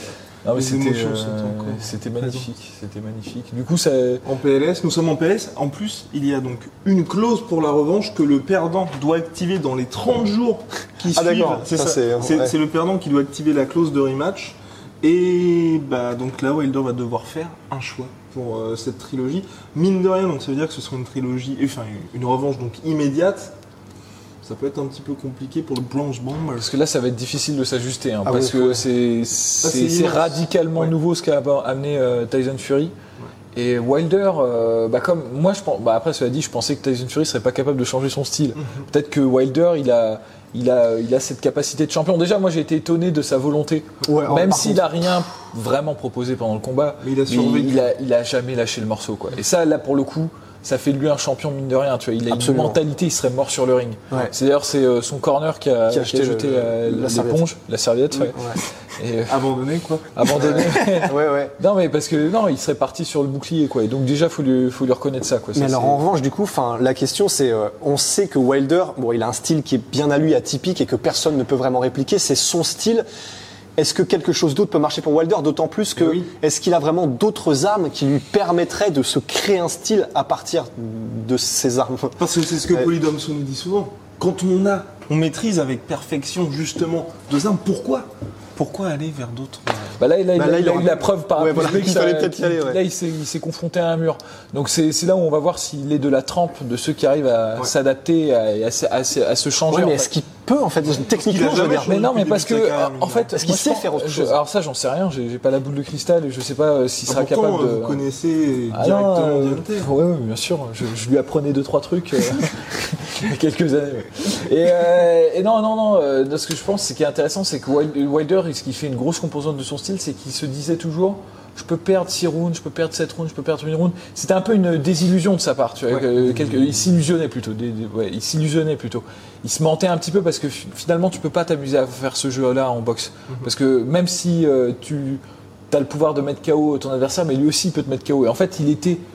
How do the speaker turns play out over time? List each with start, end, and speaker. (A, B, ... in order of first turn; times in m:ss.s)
0:00.4-0:04.2 A
0:00.5-0:02.5 B
0:04.2-0:23.5 B
0:11.1-0:12.5 C
0:24.4-0:26.7 B
0:26.6-0:32.9 A
0:28.2-0:28.9 C
0:29.6-0:30.9 B
0:33.5-0:58.4 A
0:44.1-0:45.1 C
0:47.0-0:47.9 B
0:52.3-0:52.8 C
0:55.9-0:57.4 C
0:58.1-0:58.6 C
0:59.0-0:59.4 A
0:59.3-1:00.8 B
1:00.1-1:06.0 A
1:00.4-1:01.6 C
1:05.6-1:13.1 C
1:13.8-1:22.9 C
1:16.0-1:16.2 B
1:22.2-1:30.0 B
1:30.0-1:40.1 A
1:30.4-1:32.8 C
1:39.7-1:41.9 C
1:41.1-1:43.4 B
1:41.7-1:48.0 A
1:43.4-1:44.4 C
1:47.1-1:49.9 B
1:48.7-2:19.0 A
2:05.9-2:06.6 B